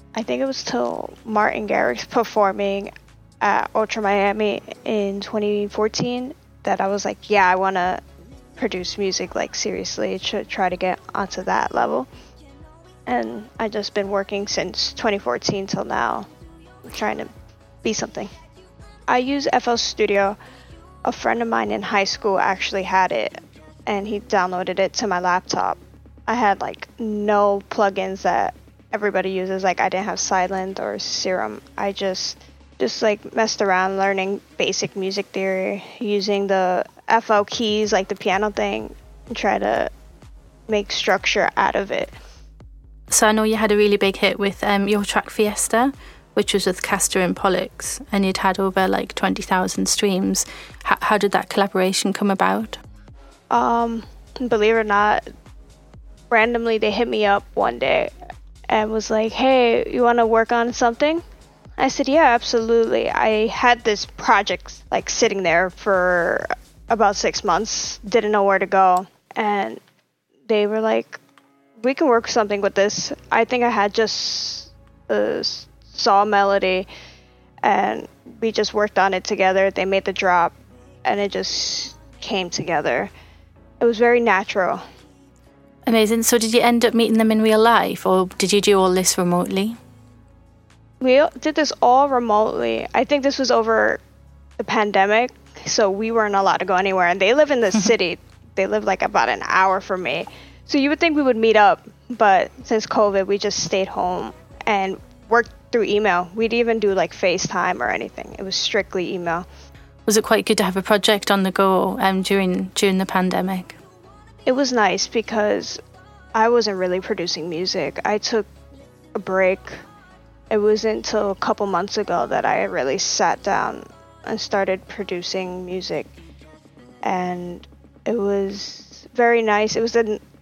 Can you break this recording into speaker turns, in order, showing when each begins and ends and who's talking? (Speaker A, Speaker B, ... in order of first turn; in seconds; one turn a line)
Speaker A: 0.1-8.0
Speaker A: 8.6-12.1
Speaker A: 13.1-16.3
Speaker A: 16.9-17.3
Speaker A: 17.8-18.3
Speaker A: 19.1-20.4
Speaker A: 21.0-39.9
Speaker A: 40.7-42.1
Speaker B: 43.1-52.8
Speaker A: 53.5-55.2
Speaker A: 56.3-58.1
Speaker A: 58.7-61.2
Speaker A: 61.8-69.8
Speaker A: 70.5-71.2
Speaker A: 71.8-76.9
Speaker A: 77.6-80.5
Speaker A: 81.0-83.1
Speaker A: 83.8-84.8
Speaker B: 85.9-89.8
Speaker A: 91.0-94.0
Speaker A: 94.6-109.5
Speaker B: 110.1-113.8
Speaker A: 114.5-115.8
Speaker A: 116.3-118.5
Speaker A: 119.2-119.8
Speaker A: 120.5-126.1
Speaker A: 127.0-130.2